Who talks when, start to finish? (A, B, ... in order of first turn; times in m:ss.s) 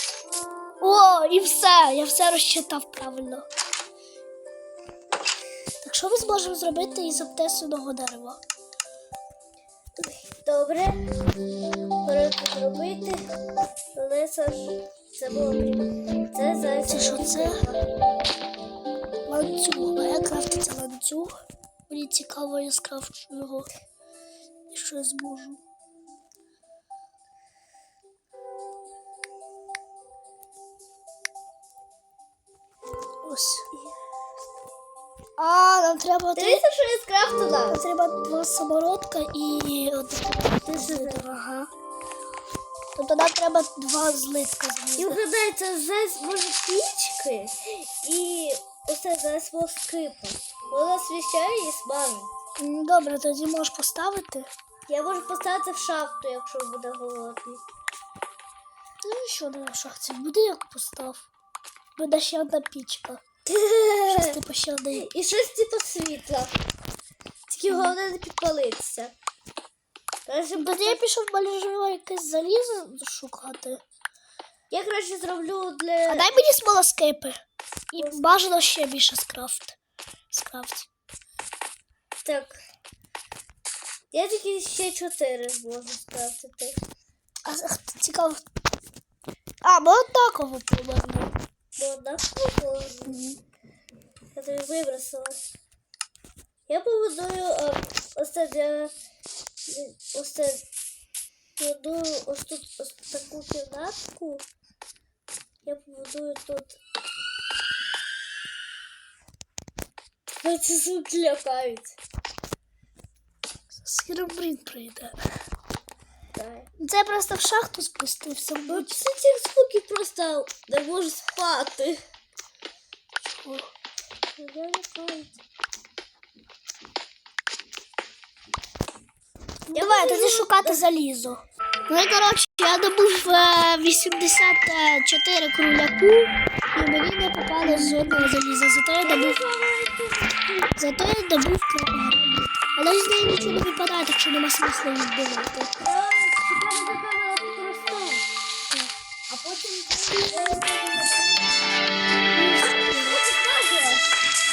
0:00.8-0:03.5 A
0:05.8-0:08.4 A
0:10.0-0:11.0 B
0:12.0-0:13.3 B
0:13.9-0:17.9 B
0:16.8-0:17.6 A
0:19.2-0:21.3 A
0:21.9-0:23.7 A
0:24.7-0:25.6 A
0:33.2-0:33.6 A
0:35.4-0:36.6 A
0:36.3-0:37.8 B
0:37.7-0:41.7 A
0:40.6-0:41.3 B
0:42.9-0:45.2 A
0:45.0-0:52.3 B
0:52.6-0:54.5 A
0:54.9-0:57.6 B
0:59.0-1:01.3 A
1:02.0-1:03.2 A
1:03.4-1:04.4 B
1:04.1-1:05.1 A
1:04.9-1:06.5 B
1:07.5-1:09.1 B
1:10.3-1:11.0 B
1:10.6-1:13.8 A
1:14.7-1:16.3 B
1:16.1-1:17.4 A
1:17.9-1:19.8 A
1:18.0-1:18.3 B
1:20.3-1:20.9 A
1:22.2-1:22.6 B
1:24.1-1:26.8 B
1:27.4-1:28.4 A
1:29.6-1:31.3 A
1:31.8-1:33.2 B
1:33.1-1:33.4 A
1:34.3-1:35.4 B
1:36.7-1:38.9 B
1:39.7-1:40.6 B
1:41.6-1:44.4 B
1:45.6-1:46.8 B
1:50.4-1:52.0 B
1:53.7-1:55.2 A
1:56.3-1:56.7 B
1:56.8-1:59.0 A
1:58.7-2:02.0 B
2:03.2-2:03.7 A
2:04.4-2:05.4 B
2:09.7-2:19.4 A
2:09.7-2:10.8 B
2:19.0-2:20.8 B
2:20.8-2:25.7 A
2:25.8-2:28.3 B
2:29.3-2:31.6 B
2:32.3-2:33.2 A
2:32.9-2:34.2 B